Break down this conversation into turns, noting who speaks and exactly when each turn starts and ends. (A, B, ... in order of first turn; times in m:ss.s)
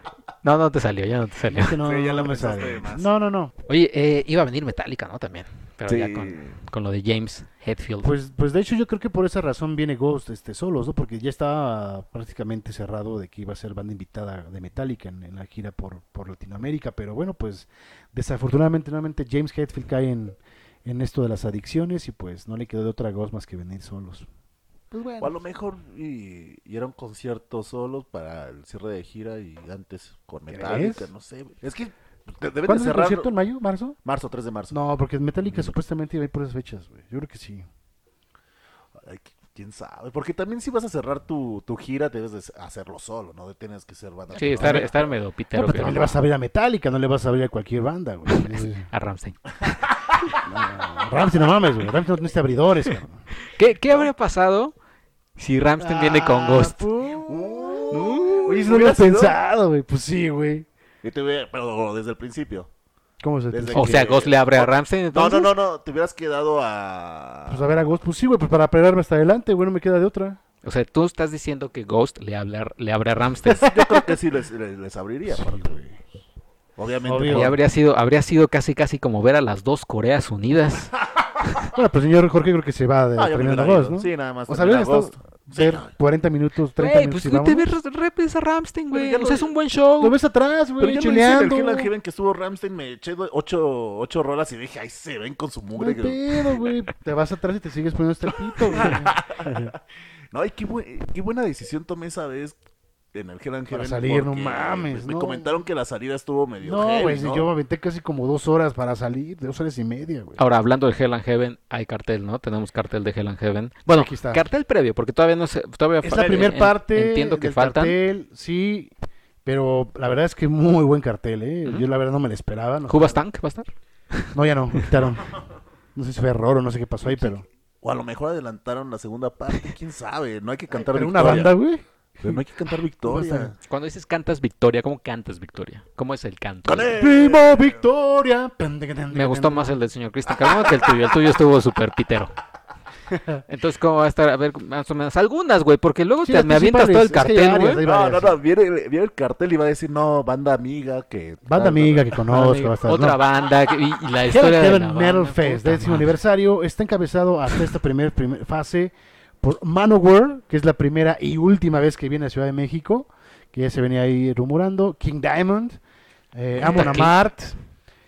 0:00.4-0:01.8 A
0:01.5-0:03.5 B
0:01.8-0:03.1 C
0:03.7-0:08.1 A
0:05.8-0:06.6 C
0:08.0-0:24.3 B
0:24.9-0:25.4 B
0:25.2-0:33.3 C
0:30.5-0:31.1 B
0:32.6-0:34.0 B
0:34.0-0:34.7 C
0:34.7-0:37.6 B
0:38.9-0:45.1 C
0:44.3-0:46.2 A
0:44.4-0:44.9 B
0:45.5-0:48.9 B
0:48.3-0:49.5 A
0:49.9-0:50.3 C
0:50.3-0:53.2 B
0:53.4-0:54.7 A
0:55.4-0:56.8 A
0:55.8-1:00.6 B
0:57.2-0:59.4 C
0:57.9-0:58.5 A
1:01.0-1:02.7 C
1:03.2-1:04.1 B
1:03.5-1:07.7 C
1:03.7-1:05.5 A
1:07.5-1:10.4 B
1:10.6-1:13.7 A
1:13.6-1:15.7 C
1:15.3-1:16.0 B
1:16.8-1:17.6 C
1:17.0-1:17.6 B
1:17.3-1:20.9 A
1:21.7-1:27.7 B
1:23.2-1:25.9 C
1:26.8-1:30.2 A
1:28.9-1:29.5 C
1:30.0-1:31.9 B
1:30.8-1:36.7 C
1:35.8-1:39.7 B
1:38.4-1:39.8 C
1:40.3-1:42.6 C
1:43.1-1:47.5 C
1:43.7-1:45.6 B
1:46.6-1:50.4 B
1:50.4-1:58.0 A
1:53.9-1:54.4 B
1:56.0-1:58.9 B
1:59.4-2:03.2 B
2:02.9-2:03.7 A
2:04.2-2:05.0 A
2:04.3-2:05.4 B
2:05.9-2:07.4 B
2:07.8-2:11.5 C
2:10.7-2:12.4 B
2:12.2-2:13.6 C
2:13.0-2:13.5 B
2:13.7-2:16.9 A
2:16.6-2:17.8 C
2:16.9-2:19.8 B
2:19.1-2:22.4 A
2:20.3-2:21.2 C
2:23.1-2:23.4 B
2:23.5-2:27.8 A
2:26.2-2:28.4 B
2:27.8-2:32.2 C
2:31.4-2:33.2 B
2:32.2-2:36.2 A
2:34.2-2:45.8 B
2:46.3-2:47.6 B
2:46.6-2:47.1 A